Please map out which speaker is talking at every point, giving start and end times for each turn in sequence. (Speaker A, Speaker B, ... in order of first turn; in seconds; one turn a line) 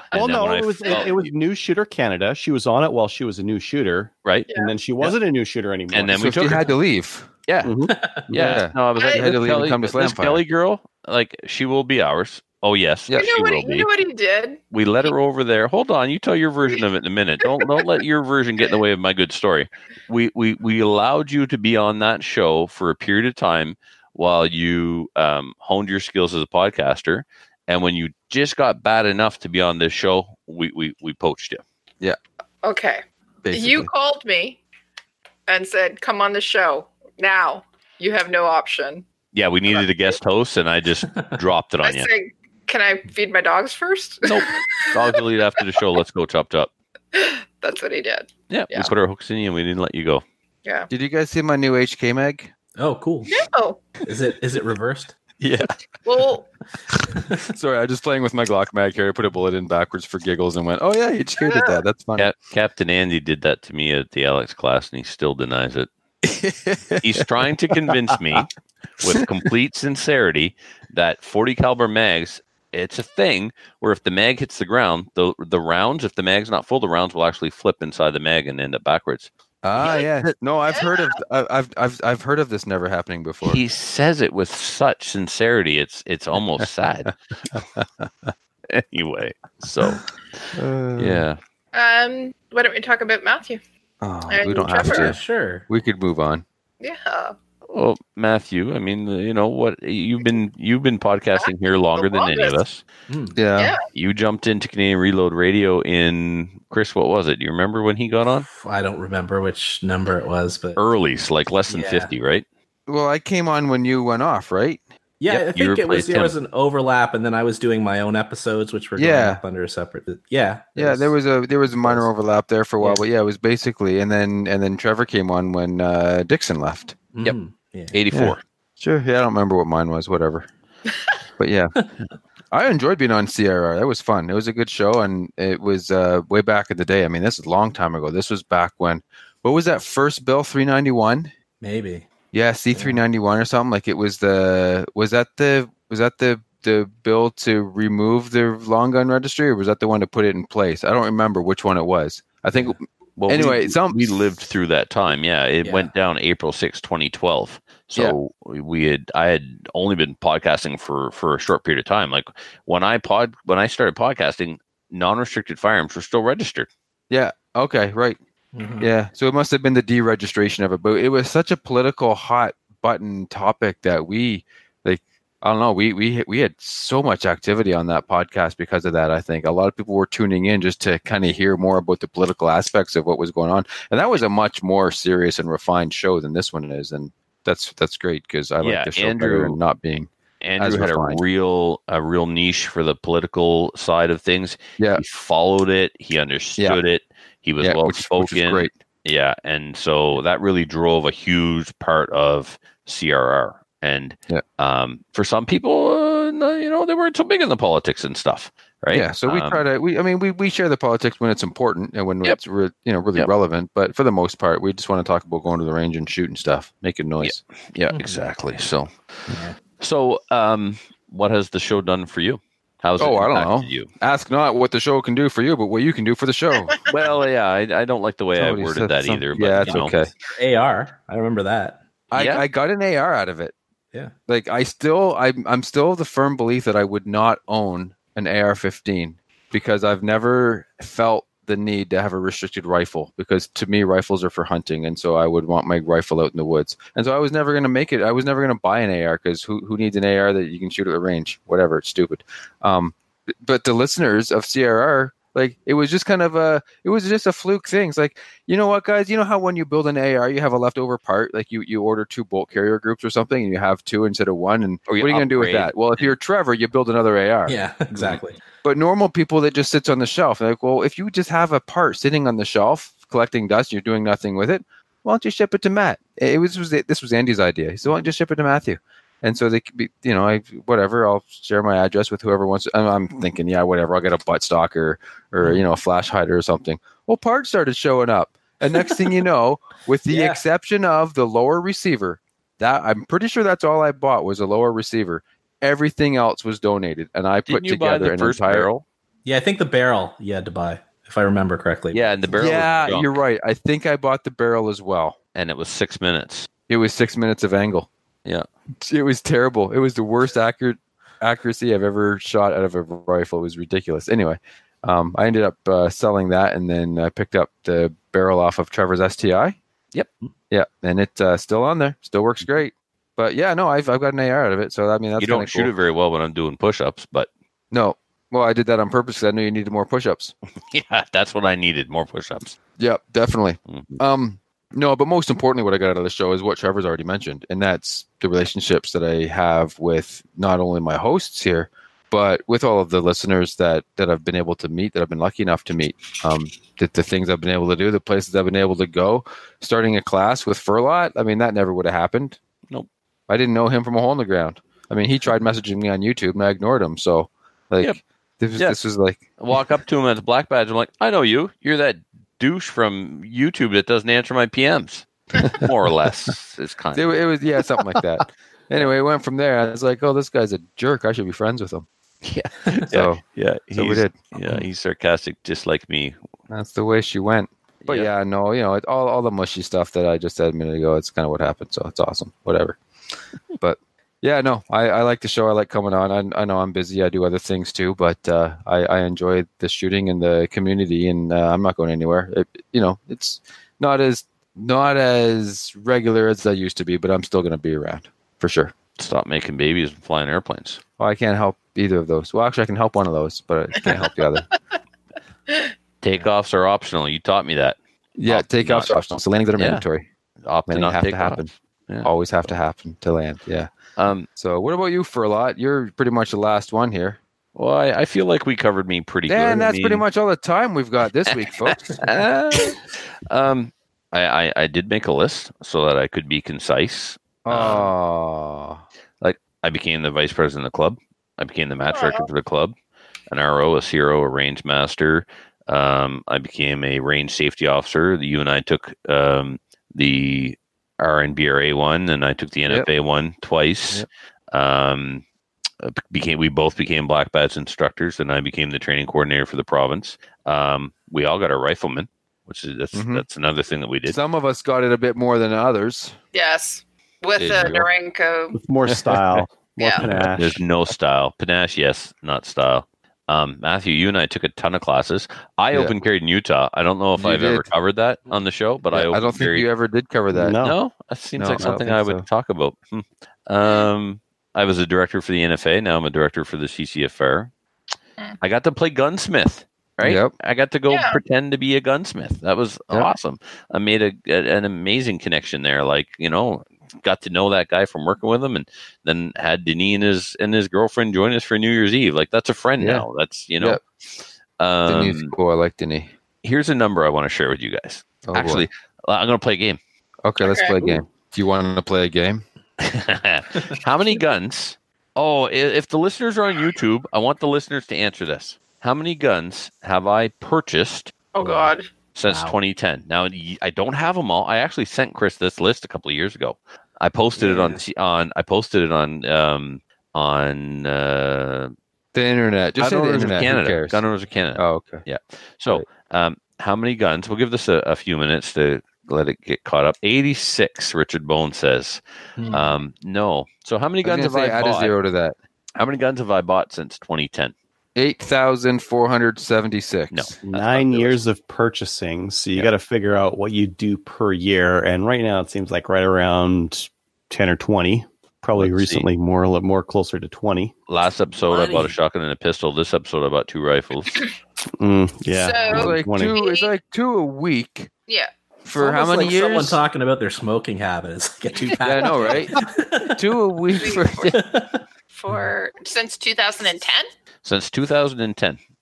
Speaker A: 0.1-1.2
Speaker B: 0.1-6.7
Speaker A: 5.9-6.7
Speaker C: 6.2-7.3
Speaker A: 7.5-13.9
Speaker B: 7.6-7.9
Speaker D: 7.9-8.3
Speaker C: 8.3-10.4
Speaker E: 8.9-9.3
Speaker E: 13.1-15.1
Speaker A: 14.7-31.6
Speaker E: 32.6-34.6
Speaker C: 33.4-33.9
Speaker E: 35.5-39.1
Speaker A: 39.3-42.1
Speaker E: 41.8-45.2
Speaker A: 44.3-46.7
Speaker E: 47.1-48.9
Speaker A: 48.5-50.2
Speaker C: 50.9-52.5
Speaker D: 52.8-53.3
Speaker E: 53.3-53.8
Speaker D: 54.0-55.2
Speaker E: 56.0-56.5
Speaker C: 57.5-62.3
Speaker E: 61.4-61.7
Speaker A: 62.2-65.9
Speaker C: 66.2-67.3
Speaker A: 67.0-68.5
Speaker C: 68.1-68.5
Speaker A: 69.0-79.3
Speaker C: 79.6-83.6
Speaker E: 80.7-81.2
Speaker A: 83.4-87.2
Speaker C: 87.5-88.3
Speaker A: 88.7-91.4
Speaker B: 90.6-91.2
Speaker E: 91.7-93.6
Speaker C: 94.0-96.5
Speaker E: 94.3-95.1
Speaker D: 94.8-95.7
Speaker E: 96.8-97.3
Speaker A: 97.7-102.8
Speaker E: 101.4-102.6
Speaker D: 103.1-103.4
Speaker C: 103.4-103.8
Speaker A: 103.9-108.5
Speaker D: 108.5-110.8
Speaker A: 110.8-112.5
Speaker D: 111.7-112.1
Speaker C: 112.9-114.8
Speaker D: 115.2-121.2
Speaker A: 115.3-116.3
Speaker C: 119.0-119.4
Speaker C: 120.8-127.0
Speaker D: 121.8-122.1
Speaker D: 127.1-128.0
Speaker A: 127.9-128.4
Speaker C: 128.1-130.5
Speaker C: 131.4-131.8
Speaker C: 132.5-141.3
Speaker D: 141.6-142.1
Speaker C: 142.3-154.1
Speaker D: 142.7-143.0
Speaker A: 153.2-166.7
Speaker C: 155.6-155.9
Speaker C: 167.1-168.2
Speaker D: 168.5-168.9
Speaker C: 168.8-191.2
Speaker A: 188.6-189.6
Speaker A: 190.4-209.6
Speaker C: 197.6-198.8
Speaker C: 208.9-217.4
Speaker A: 217.2-223.9
Speaker D: 217.9-218.2
Speaker C: 223.0-226.8
Speaker A: 226.9-229.9
Speaker C: 228.3-230.1
Speaker D: 229.7-231.8
Speaker C: 232.1-233.6
Speaker A: 232.1-232.4
Speaker C: 234.3-268.0
Speaker A: 264.9-266.1
Speaker D: 267.5-268.4
Speaker C: 268.6-298.8
Speaker D: 290.1-290.4
Speaker A: 297.5-298.7
Speaker D: 299.2-302.1
Speaker A: 301.9-303.2
Speaker C: 302.3-305.2
Speaker A: 305.4-306.5
Speaker C: 306.7-307.9
Speaker C: 308.8-319.6
Speaker C: 320.5-325.7
Speaker A: 325.2-327.3
Speaker C: 327.7-330.3
Speaker A: 330.7-332.6
Speaker C: 332.8-352.4
Speaker A: 333.7-334.0
Speaker C: 353.3-359.2
Speaker A: 359.4-367.1
Speaker C: 366.9-371.9
Speaker A: 372.2-376.2
Speaker C: 372.9-374.3
Speaker C: 376.5-382.8
Speaker A: 377.8-378.1
Speaker C: 383.6-398.8
Speaker A: 399.0-400.8
Speaker C: 401.0-404.4
Speaker E: 403.9-404.6
Speaker A: 406.0-409.0
Speaker C: 408.2-410.1
Speaker A: 409.6-409.8
Speaker A: 410.4-412.5
Speaker C: 410.7-413.7
Speaker A: 414.0-414.3
Speaker C: 414.4-417.2
Speaker A: 417.6-420.0
Speaker C: 419.3-422.7
Speaker A: 422.0-422.8
Speaker A: 423.3-427.9
Speaker C: 427.4-428.8
Speaker A: 429.2-432.8
Speaker E: 431.9-432.3
Speaker A: 433.3-445.2
Speaker A: 445.8-454.2
Speaker C: 452.9-453.2
Speaker C: 454.1-456.2
Speaker E: 456.3-458.6
Speaker C: 457.4-457.9
Speaker A: 457.5-457.7
Speaker B: 458.6-460.6
Speaker C: 458.9-459.4
Speaker E: 459.8-460.0
Speaker A: 460.0-469.7
Speaker C: 467.2-467.7
Speaker C: 468.9-470.6
Speaker B: 470.3-470.8
Speaker A: 470.6-477.5
Speaker C: 471.4-472.2
Speaker A: 478.4-493.8
Speaker C: 480.0-480.3
Speaker E: 480.9-481.2
Speaker C: 492.8-493.1
Speaker A: 494.6-495.3
Speaker C: 494.9-496.1
Speaker A: 496.4-499.8
Speaker C: 498.2-498.7
Speaker C: 500.2-502.4
Speaker E: 500.4-500.8
Speaker A: 502.8-521.7
Speaker E: 511.3-511.9
Speaker D: 512.3-512.6
Speaker D: 517.4-517.8
Speaker C: 522.1-524.0
Speaker A: 522.8-535.0
Speaker C: 524.5-525.0
Speaker D: 532.4-532.6
Speaker C: 534.0-535.4
Speaker A: 535.8-537.5
Speaker C: 538.0-540.4
Speaker A: 540.1-541.2
Speaker B: 540.4-550.7
Speaker A: 548.6-549.1
Speaker A: 550.9-554.2
Speaker E: 551.4-552.0
Speaker B: 554.8-556.4
Speaker E: 555.3-556.7
Speaker C: 555.7-557.9
Speaker C: 558.6-559.8
Speaker D: 558.8-563.2
Speaker C: 561.8-562.6
Speaker C: 563.1-564.4
Speaker E: 563.8-564.3
Speaker D: 564.3-564.8
Speaker E: 565.1-567.1
Speaker A: 567.4-568.6